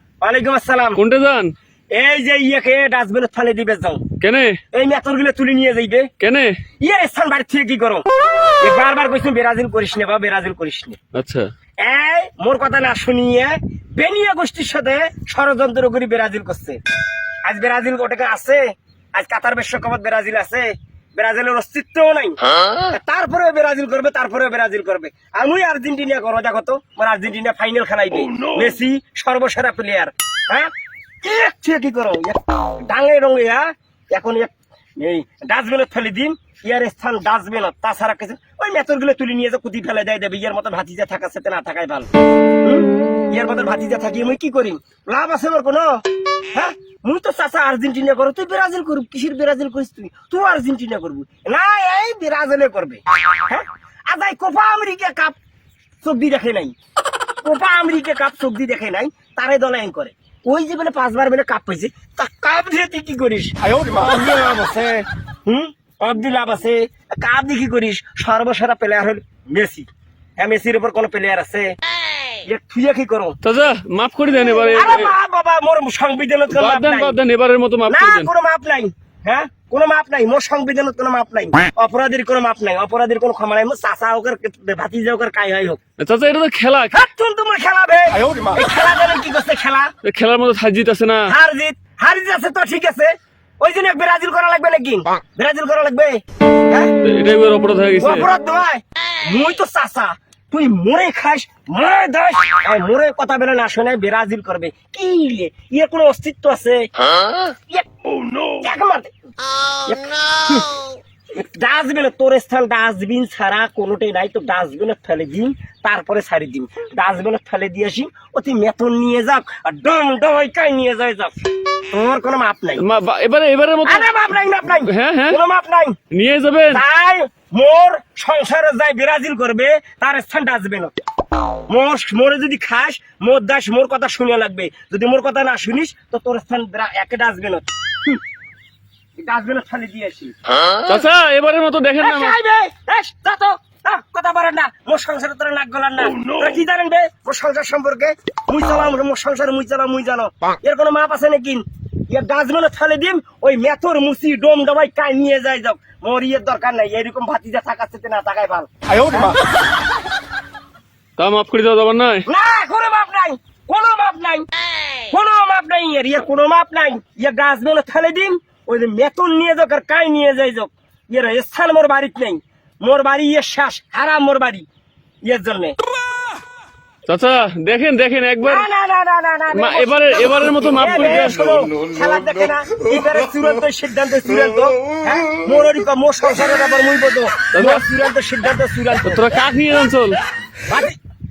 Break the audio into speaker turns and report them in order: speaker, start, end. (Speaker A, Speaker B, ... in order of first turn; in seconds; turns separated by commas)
Speaker A: 0.2-1.0, Speaker B: 1.0-1.5, Speaker A: 1.9-4.1, Speaker B: 4.2-4.6, Speaker A: 4.7-6.1, Speaker B: 6.2-6.5, Speaker A: 6.8-8.1, Speaker A: 8.6-11.0, Speaker B: 11.1-11.5, Speaker A: 11.8-16.8, Speaker A: 17.4-30.7, Speaker A: 31.2-42.1, Speaker A: 42.6-45.9, Speaker A: 46.5-55.4, Speaker A: 56.0-56.8, Speaker A: 57.4-69.9, Speaker A: 70.4-71.7, Speaker A: 72.5-73.4, Speaker B: 73.4-75.1, Speaker A: 74.7-77.2, Speaker B: 76.5-78.3, Speaker A: 77.9-85.8, Speaker B: 86.0-86.9, Speaker A: 86.9-89.9, Speaker B: 90.0-91.3, Speaker A: 91.3-96.9, Speaker B: 97.0-98.3, Speaker A: 98.0-106.9, Speaker A: 108.5-109.1, Speaker A: 109.9-110.8, Speaker A: 111.3-121.3, Speaker A: 121.9-122.8, Speaker B: 122.8-124.1, Speaker A: 123.8-126.0, Speaker B: 124.8-125.4, Speaker B: 126.1-126.8, Speaker A: 126.7-130.9, Speaker A: 131.7-138.2, Speaker A: 139.2-140.4, Speaker B: 140.8-142.4, Speaker A: 142.0-159.4, Speaker B: 161.2-162.3, Speaker A: 162.3-164.5, Speaker A: 165.1-174.7, Speaker A: 175.2-175.8, Speaker B: 177.1-178.7, Speaker A: 178.4-189.2, Speaker B: 179.5-181.5, Speaker B: 187.5-187.8, Speaker B: 189.1-190.2, Speaker A: 190.7-190.9